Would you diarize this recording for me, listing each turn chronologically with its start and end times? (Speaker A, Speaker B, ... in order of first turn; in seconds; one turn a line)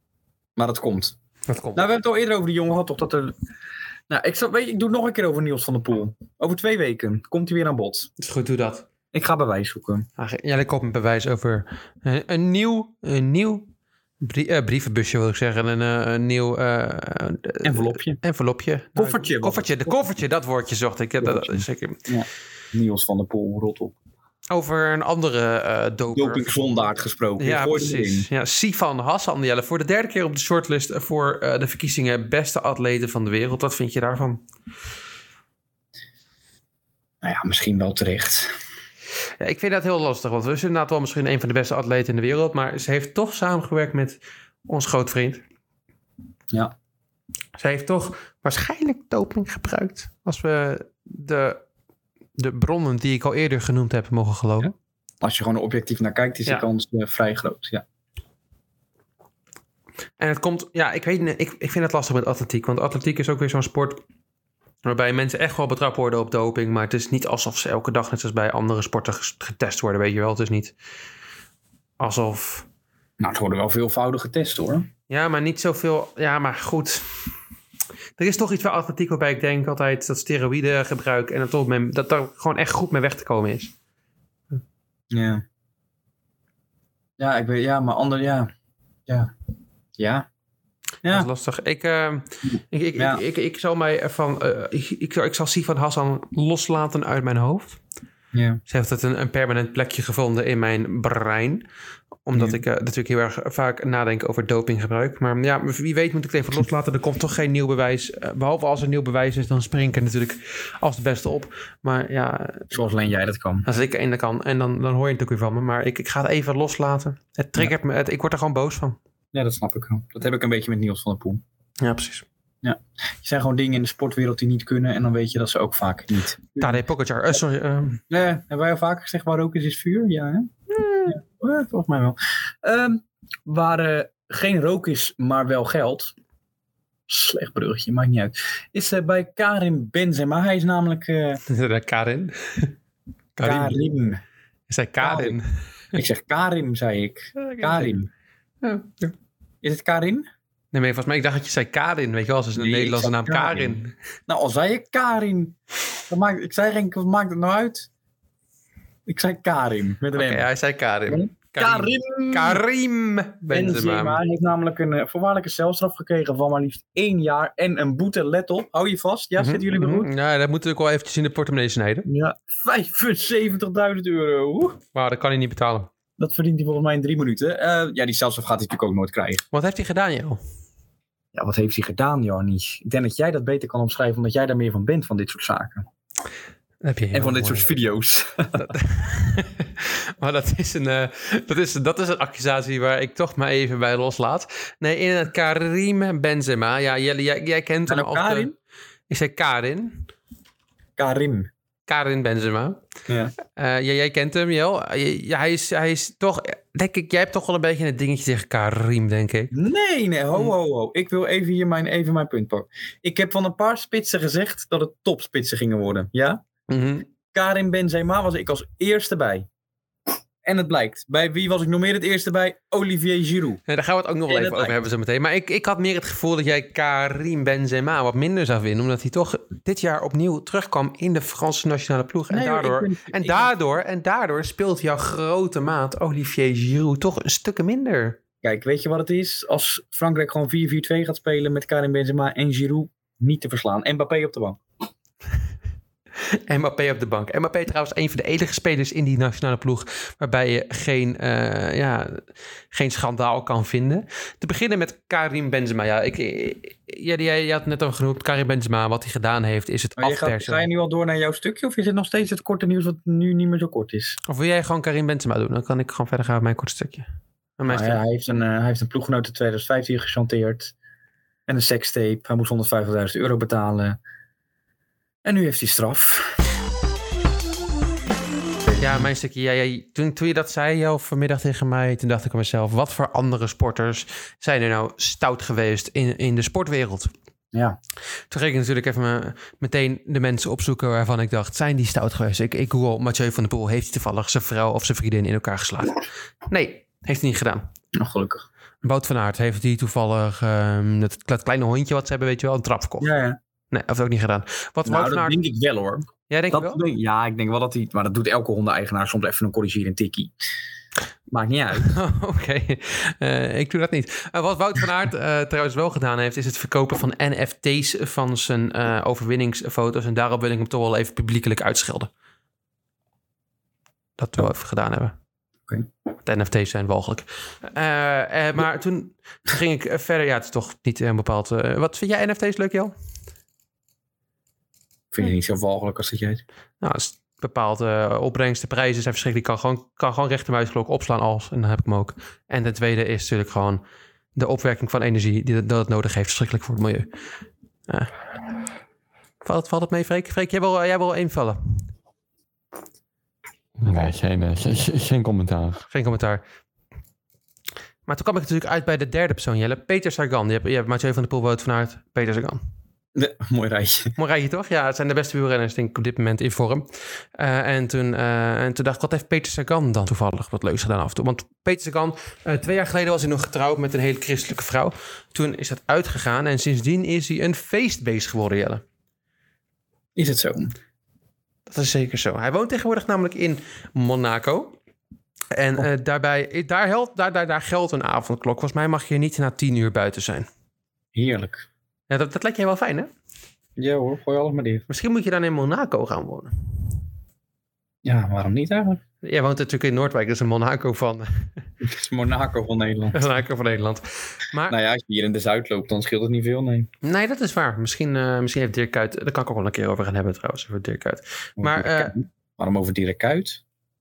Speaker A: 0.6-1.1
Speaker B: 1.5-1.9
Speaker A: 1.7-3.3
Speaker A: 4.1-8.1
Speaker B: 8.2-8.8
Speaker A: 9.1-10.1
Speaker B: 10.2-13.7
Speaker B: 14.2-22.0
Speaker A: 17.6-18.2
Speaker A: 18.9-20.1
Speaker A: 21.2-23.9
Speaker B: 24.5-26.7
Speaker A: 26.1-28.3
Speaker B: 27.4-34.4
Speaker A: 37.2-38.5
Speaker B: 39.4-45.4
Speaker B: 47.5-51.6
Speaker B: 52.4-54.7
Speaker A: 55.2-57.8
Speaker B: 60.2-64.0
Speaker B: 64.8-70.7
Speaker B: 72.0-72.7
Speaker A: 73.2-74.9
Speaker B: 75.1-77.1
Speaker B: 78.2-83.7
Speaker A: 85.1-85.4
Speaker A: 87.2-88.5
Speaker A: 90.0-90.3
Speaker B: 91.1-97.8
Speaker A: 93.0-93.2
Speaker A: 98.3-98.6
Speaker B: 98.7-101.6
Speaker B: 102.2-112.7
Speaker A: 102.3-102.6
Speaker A: 112.7-113.7
Speaker B: 113.6-119.0
Speaker A: 119.3-121.4
Speaker B: 121.8-122.2
Speaker A: 122.6-126.8
Speaker B: 126.6-128.0
Speaker A: 128.1-130.5
Speaker B: 130.8-131.1
Speaker A: 131.1-136.1
Speaker A: 137.1-141.4
Speaker B: 141.4-142.7
Speaker B: 143.3-143.8
Speaker A: 143.4-144.2
Speaker B: 144.7-145.4
Speaker A: 145.0-145.4
Speaker A: 145.9-148.1
Speaker B: 147.3-147.9
Speaker B: 148.6-149.1
Speaker A: 149.6-150.2
Speaker B: 150.7-153.9
Speaker A: 152.6-153.8
Speaker A: 154.3-155.6
Speaker A: 156.1-157.9
Speaker A: 159.1-160.5
Speaker B: 160.1-164.2
Speaker A: 161.1-162.6
Speaker A: 163.5-170.1
Speaker B: 169.4-172.1
Speaker A: 172.1-174.8
Speaker B: 174.9-175.9
Speaker A: 176.2-179.4
Speaker B: 179.5-180.4
Speaker A: 181.3-185.8
Speaker B: 186.8-187.7
Speaker A: 187.1-188.7
Speaker B: 188.6-198.5
Speaker A: 197.9-198.5
Speaker B: 199.1-200.1
Speaker A: 201.0-201.5
Speaker B: 201.9-202.8
Speaker A: 203.1-203.3
Speaker B: 203.5-209.5
Speaker A: 209.5-216.4
Speaker B: 216.7-217.1
Speaker A: 217.3-219.5
Speaker A: 220.4-223.6
Speaker B: 223.7-238.2
Speaker A: 224.3-224.8
Speaker A: 232.3-233.5
Speaker A: 238.4-244.6
Speaker B: 246.5-260.6
Speaker A: 260.0-264.2
Speaker B: 264.2-267.1
Speaker B: 267.6-268.0
Speaker A: 267.7-270.7
Speaker A: 271.5-274.0
Speaker A: 275.2-276.4
Speaker A: 278.6-279.1
Speaker B: 278.8-287.1
Speaker A: 287.5-287.8
Speaker B: 288.3-297.7
Speaker A: 297.9-298.4
Speaker B: 298.8-303.1
Speaker A: 303.0-303.4
Speaker B: 303.7-305.4
Speaker A: 304.8-310.3
Speaker B: 306.3-306.8
Speaker A: 311.3-311.9
Speaker B: 311.7-322.1
Speaker B: 324.2-325.1
Speaker B: 326.2-332.9
Speaker A: 335.1-336.4
Speaker B: 336.8-343.8
Speaker B: 344.3-347.1
Speaker B: 349.4-351.8
Speaker C: 353.8-355.8
Speaker B: 355.9-356.4
Speaker B: 358.1-362.6
Speaker A: 363.1-364.1
Speaker B: 364.1-378.8
Speaker A: 380.1-380.7
Speaker B: 381.7-384.7
Speaker B: 385.5-390.5
Speaker A: 391.1-391.6
Speaker B: 392.1-393.1
Speaker A: 393.8-394.8
Speaker B: 394.9-396.5
Speaker A: 398.0-399.0
Speaker B: 399.2-401.5
Speaker A: 401.8-403.2
Speaker B: 403.1-404.8
Speaker A: 404.7-406.9
Speaker B: 407.0-412.1
Speaker A: 411.6-413.6